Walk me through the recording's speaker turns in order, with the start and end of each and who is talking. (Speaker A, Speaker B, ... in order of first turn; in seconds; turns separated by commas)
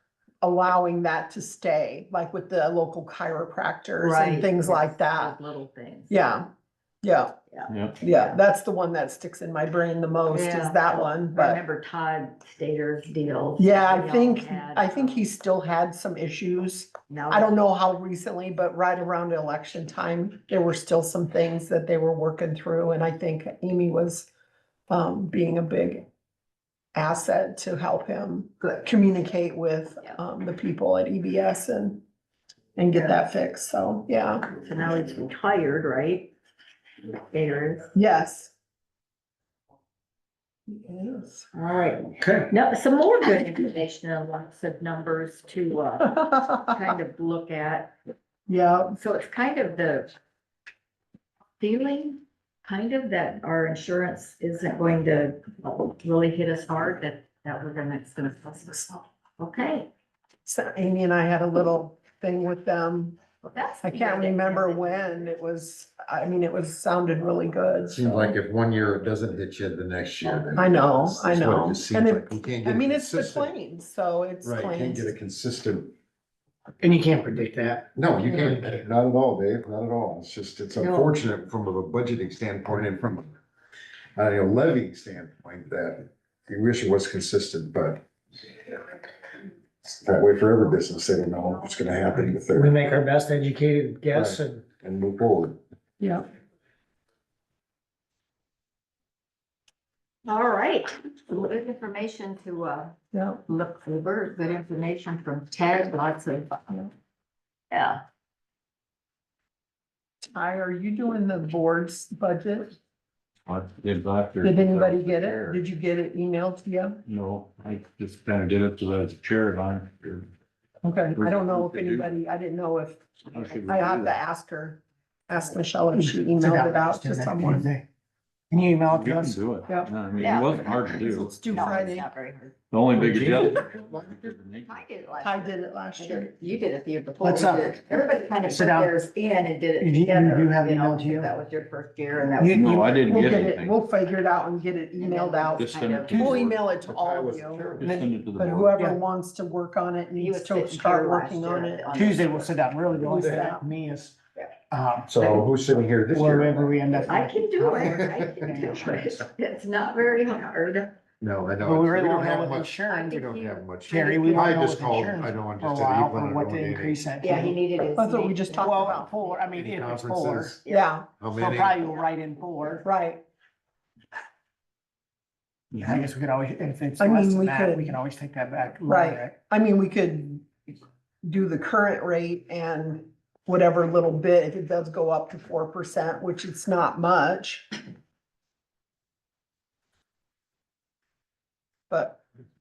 Speaker A: 0.4-5.4, Speaker B: 4.0-6.2, Speaker A: 6.1-6.5, Speaker A: 7.0-7.3, Speaker B: 7.5-8.4, Speaker C: 7.7-8.0, Speaker A: 8.0-11.6, Speaker B: 10.3-15.2, Speaker A: 13.6-24.3, Speaker B: 17.1-17.6, Speaker A: 24.9-26.0, Speaker A: 26.9-32.0, Speaker A: 32.8-34.5, Speaker B: 34.5-36.3, Speaker B: 37.1-38.0, Speaker A: 37.9-38.5, Speaker A: 40.7-41.5, Speaker B: 41.5-47.9, Speaker D: 42.2-42.5, Speaker A: 46.1-46.7, Speaker A: 48.5-49.0, Speaker B: 48.9-50.1, Speaker B: 51.6-59.9, Speaker A: 60.4-63.2, Speaker B: 63.5-65.3, Speaker A: 63.8-68.1, Speaker E: 67.9-73.5, Speaker A: 70.5-75.2, Speaker E: 74.4-75.9, Speaker D: 76.8-78.5, Speaker E: 77.9-83.3, Speaker B: 80.8-81.2, Speaker E: 84.2-88.0, Speaker E: 89.8-92.7, Speaker D: 92.5-94.6, Speaker E: 94.1-95.6, Speaker B: 100.2-106.8, Speaker A: 103.1-103.4, Speaker B: 107.7-108.0, Speaker A: 110.2-112.8, Speaker C: 113.5-115.6, Speaker A: 114.4-117.0, Speaker C: 117.0-120.3, Speaker A: 120.8-127.7, Speaker C: 121.2-122.1, Speaker C: 123.3-124.2, Speaker D: 125.9-127.8, Speaker D: 128.5-129.4, Speaker C: 128.9-131.7, Speaker B: 130.2-132.5, Speaker A: 131.0-132.1, Speaker C: 132.7-134.7, Speaker E: 133.1-134.3, Speaker B: 134.7-143.5, Speaker A: 135.2-136.3, Speaker D: 137.2-137.8, Speaker D: 138.5-138.9, Speaker D: 139.8-141.3, Speaker D: 142.4-143.0, Speaker C: 142.5-143.7, Speaker A: 143.1-147.7, Speaker B: 144.9-146.5, Speaker C: 145.6-146.6, Speaker E: 146.8-148.0, Speaker C: 147.8-148.7, Speaker D: 147.8-148.1, Speaker A: 148.4-151.8, Speaker B: 150.2-152.6, Speaker D: 151.9-154.2, Speaker A: 153.0-153.7, Speaker D: 154.7-155.5, Speaker E: 155.1-157.0, Speaker D: 156.1-159.2, Speaker B: 157.1-160.9, Speaker E: 157.8-158.4, Speaker E: 161.2-167.0, Speaker D: 161.6-163.1, Speaker B: 162.9-164.6, Speaker D: 163.9-167.6, Speaker B: 167.2-169.5, Speaker A: 168.0-169.1, Speaker D: 168.6-170.6, Speaker E: 169.5-170.6, Speaker B: 170.6-170.9, Speaker A: 170.7-171.1, Speaker E: 171.2-171.8, Speaker D: 171.3-172.8, Speaker A: 172.8-173.2, Speaker D: 175.7-179.3, Speaker A: 177.0-178.0, Speaker A: 178.8-180.5, Speaker A: 181.2-187.7, Speaker A: 191.9-192.2